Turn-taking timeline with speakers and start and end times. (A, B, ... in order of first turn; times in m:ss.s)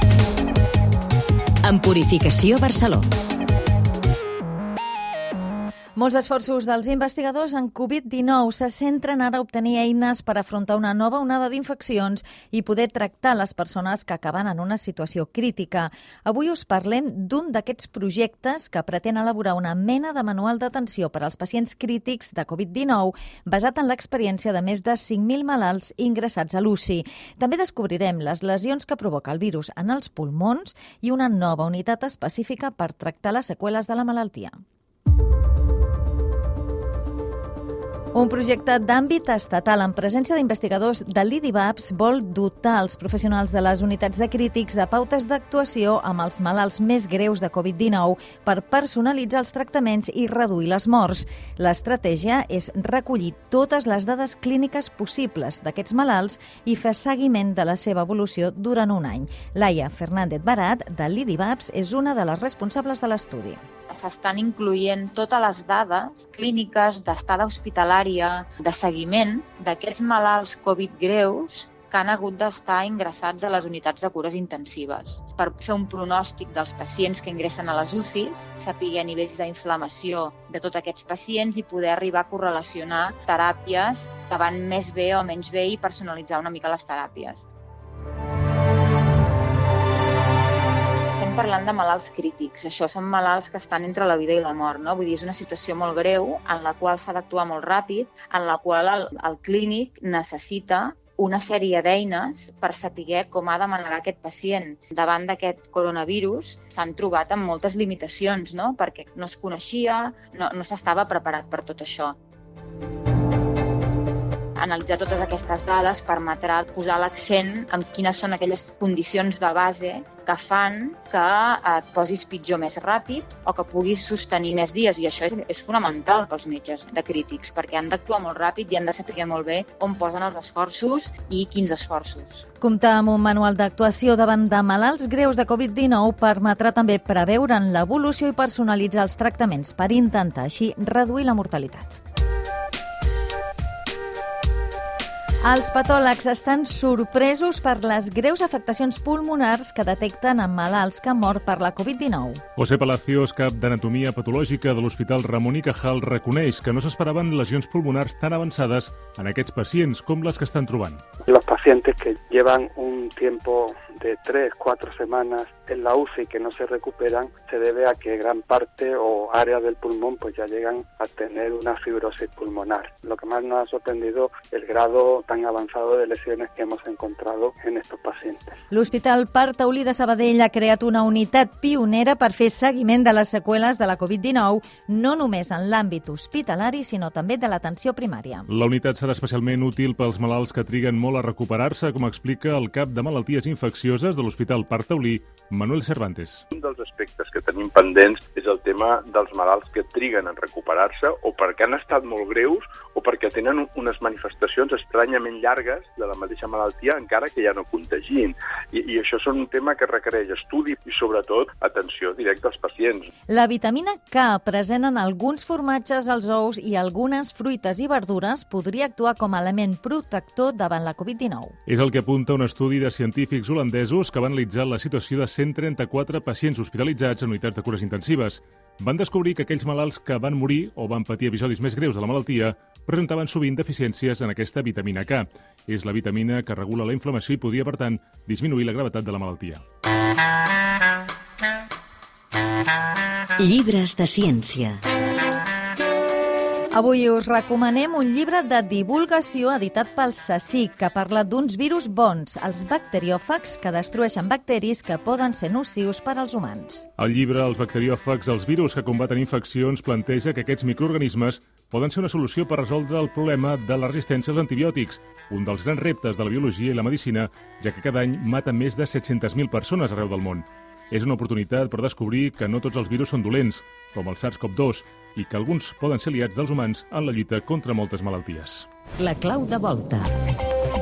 0:01.6-0:03.1 A
0:06.0-0:34.6 B
0:38.1-1:03.6 B
1:03.9-1:27.5 C
1:31.1-1:52.2 C
1:54.6-2:12.4 C
2:12.6-2:22.0 B
2:25.4-2:32.4 B
2:32.6-2:41.0 D
2:41.2-2:58.6 E
2:58.7-3:08.5 B
3:08.5-3:16.4 D
3:16.5-3:33.1 F
3:33.3-3:41.6 B
3:41.7-3:59.6 D
4:03.4-4:04.8 A
4:03.4-4:04.4 B
4:06.8-4:16.9 B
4:17.0-4:38.7 D
4:39.0-4:40.1 A